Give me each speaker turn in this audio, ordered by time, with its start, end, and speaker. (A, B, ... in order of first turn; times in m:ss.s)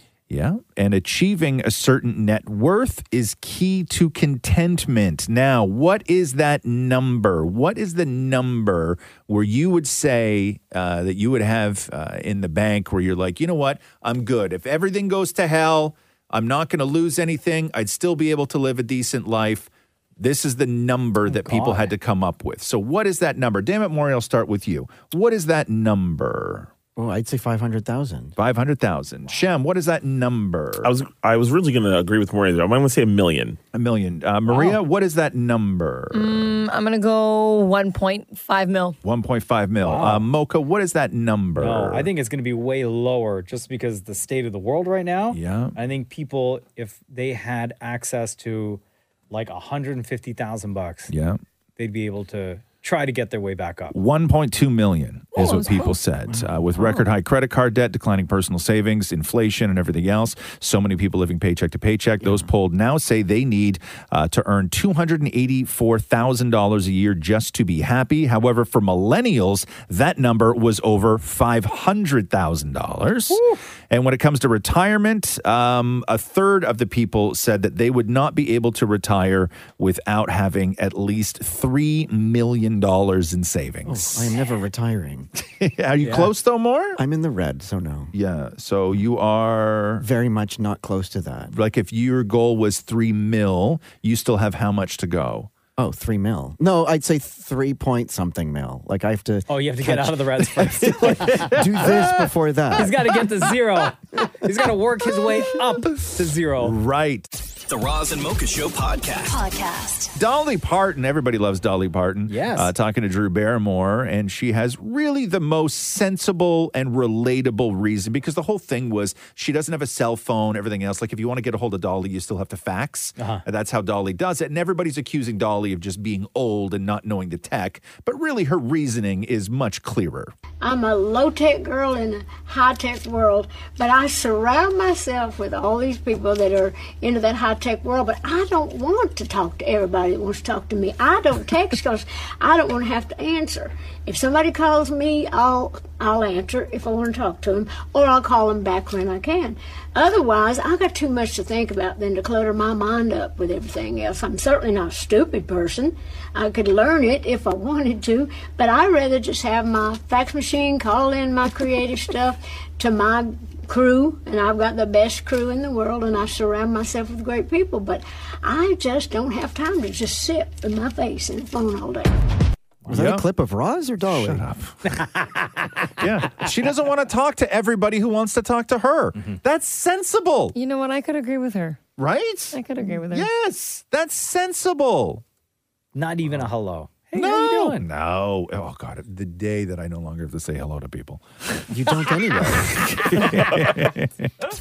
0:00.3-0:26.7 A
0:21.3-0:21.9 B
0:27.0-0:28.4 C
0:28.4-0:30.9 A
0:30.8-0:33.6 D
0:33.7-0:36.6 A
0:34.5-0:34.8 B
0:36.1-0:39.0 E
0:39.0-0:42.1 A
0:39.8-0:40.2 B
0:41.6-0:51.1 B
0:45.3-0:45.8 A
0:51.1-0:51.4 A
0:51.8-0:54.0 B
0:53.9-1:24.4 A
0:55.4-0:56.0 E
0:56.3-0:56.6 C
1:02.2-1:02.5 C
1:13.3-1:13.6 B
1:23.8-1:25.3 C
1:25.5-1:27.0 A
1:26.0-1:26.3 B
1:27.0-1:28.1 C
1:28.1-1:30.1 A
1:30.0-1:31.5 C
1:31.5-1:35.5 A
1:35.8-1:43.0 C
1:39.5-1:41.6 B
1:41.4-1:42.3 A
1:42.8-1:46.8 B
1:46.6-1:47.3 A
1:47.7-1:50.1 F
1:50.2-2:10.3 A
1:52.3-1:52.7 B
2:03.2-2:03.4 B
2:10.6-2:52.1 G
2:52.9-2:54.5 C
2:52.9-2:53.3 A
2:54.0-2:54.8 A
2:54.9-2:56.5 B
2:56.0-3:00.6 A
3:00.5-3:01.8 E
3:02.0-3:05.2 A
3:02.5-3:03.3 E
3:06.0-3:07.8 B
3:07.1-3:11.2 A
3:11.7-3:12.8 C
3:12.6-3:14.3 A